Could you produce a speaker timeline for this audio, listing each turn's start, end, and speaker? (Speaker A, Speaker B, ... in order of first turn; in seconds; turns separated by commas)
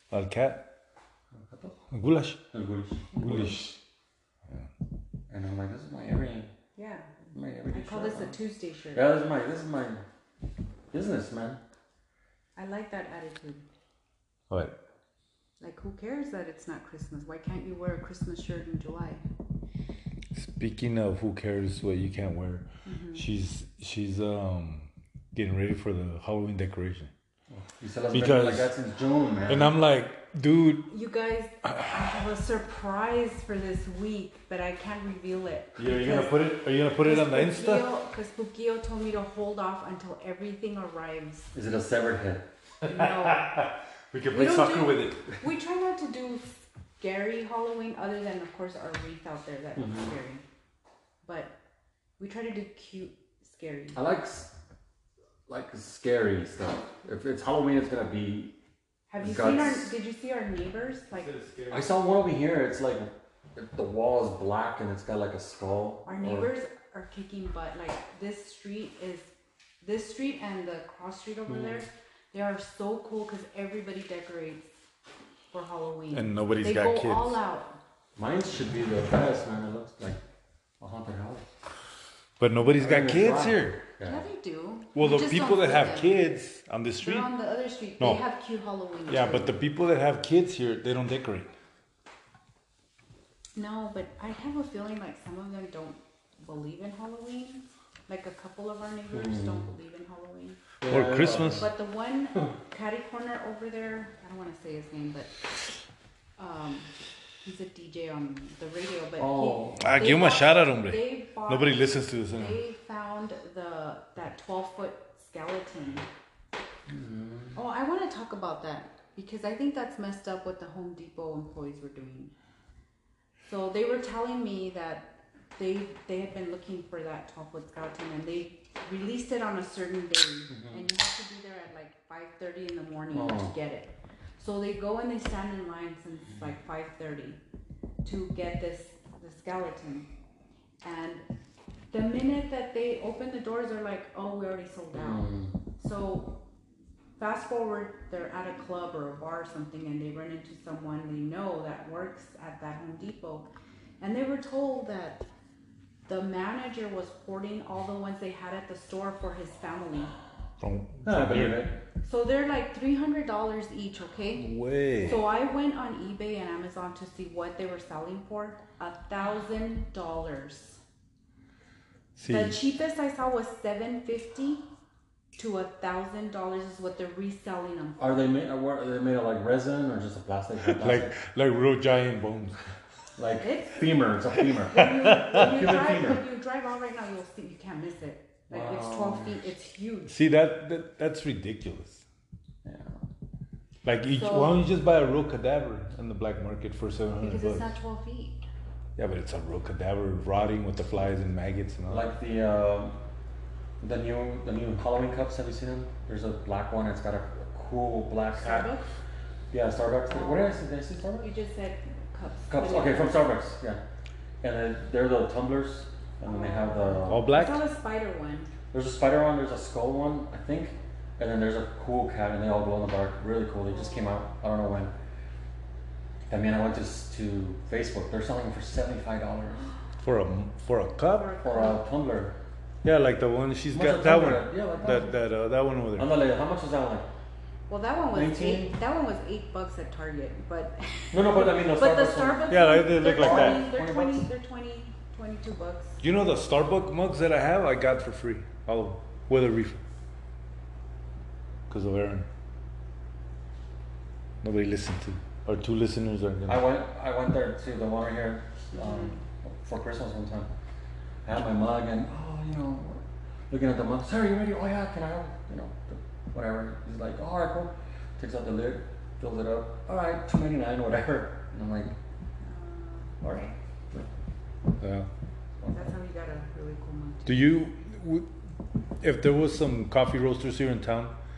Speaker A: 0.1-0.7, Speaker B: 1.3-1.8, Speaker A: 1.9-2.4, Speaker B: 2.5-3.6, Speaker C: 3.1-3.5, Speaker A: 3.2-3.8, Speaker B: 5.3-6.5, Speaker C: 6.8-7.1, Speaker B: 7.3-10.0, Speaker C: 7.7-9.1, Speaker B: 10.9-11.6, Speaker C: 12.6-13.7, Speaker A: 14.5-14.8, Speaker C: 15.6-19.2, Speaker A: 20.3-27.1, Speaker C: 22.9-23.3, Speaker B: 27.5-29.7, Speaker A: 28.1-28.7, Speaker A: 29.5-30.9, Speaker C: 30.9-41.5, Speaker A: 35.8-37.9, Speaker B: 41.5-42.5, Speaker C: 42.8-43.7, Speaker A: 42.9-45.4, Speaker C: 44.3-50.4, Speaker B: 49.8-50.1, Speaker C: 51.2-51.5, Speaker C: 52.2-54.0, Speaker B: 53.9-54.5, Speaker B: 55.5-58.6, Speaker C: 59.1-61.3, Speaker B: 59.2-59.9, Speaker A: 61.1-62.1, Speaker B: 61.7-66.5, Speaker C: 66.1-74.8, Speaker B: 71.5-71.8, Speaker C: 75.5-77.8, Speaker A: 76.1-77.4, Speaker B: 78.2-80.2, Speaker B: 80.8-81.5, Speaker A: 82.4-83.8, Speaker B: 82.7-84.2, Speaker C: 84.0-86.3, Speaker A: 85.0-87.3, Speaker C: 87.0-89.6, Speaker A: 89.1-91.5, Speaker C: 93.6-100.6, Speaker B: 99.1-99.7, Speaker B: 100.8-101.7, Speaker A: 100.9-101.7, Speaker C: 101.5-105.3, Speaker C: 106.4-106.9, Speaker C: 107.4-116.1, Speaker B: 109.2-109.9, Speaker A: 109.8-112.6, Speaker B: 116.9-117.6, Speaker C: 117.5-122.3, Speaker C: 123.5-137.4, Speaker B: 130.5-130.8, Speaker B: 133.1-133.5, Speaker C: 138.0-140.1, Speaker C: 140.8-141.3, Speaker C: 141.9-146.4, Speaker B: 144.9-145.6, Speaker C: 147.2-153.5, Speaker C: 154.0-155.2, Speaker C: 156.1-160.1, Speaker A: 160.6-161.7, Speaker B: 161.1-161.8, Speaker C: 162.0-170.8, Speaker A: 164.3-165.2, Speaker A: 172.2-172.6, Speaker C: 172.3-174.7, Speaker C: 175.4-178.3, Speaker B: 178.0-181.2, Speaker A: 180.6-182.6, Speaker B: 183.2-186.2, Speaker C: 183.4-183.9, Speaker C: 184.7-190.1, Speaker A: 184.9-185.4, Speaker B: 188.5-189.3, Speaker A: 190.1-192.0, Speaker B: 192.6-193.0, Speaker A: 193.8-197.7, Speaker C: 194.1-194.6, Speaker C: 197.2-198.4, Speaker A: 199.0-202.1, Speaker B: 201.9-203.0, Speaker B: 203.8-208.7, Speaker C: 208.3-208.9, Speaker B: 209.5-211.3, Speaker C: 210.1-210.6, Speaker C: 211.2-213.2, Speaker B: 212.5-213.8, Speaker B: 214.4-217.3, Speaker C: 216.2-218.5, Speaker A: 217.1-217.7, Speaker B: 218.7-224.9, Speaker C: 223.8-224.3, Speaker B: 226.3-229.7, Speaker A: 230.0-231.3, Speaker C: 231.0-231.8, Speaker B: 231.4-232.4, Speaker A: 232.8-236.2, Speaker B: 233.7-235.1, Speaker C: 234.8-235.1, Speaker B: 236.0-237.1, Speaker C: 237.7-246.0, Speaker B: 238.1-238.8, Speaker B: 241.1-244.3, Speaker A: 242.5-243.6, Speaker A: 246.0-249.8, Speaker A: 251.7-252.3, Speaker A: 254.4-256.7, Speaker B: 256.5-260.5, Speaker C: 258.8-259.2, Speaker B: 261.2-271.9, Speaker C: 272.4-273.5, Speaker B: 273.2-274.1, Speaker A: 274.8-275.1, Speaker B: 275.6-275.9, Speaker C: 275.7-277.4, Speaker A: 277.3-278.3, Speaker A: 279.0-281.1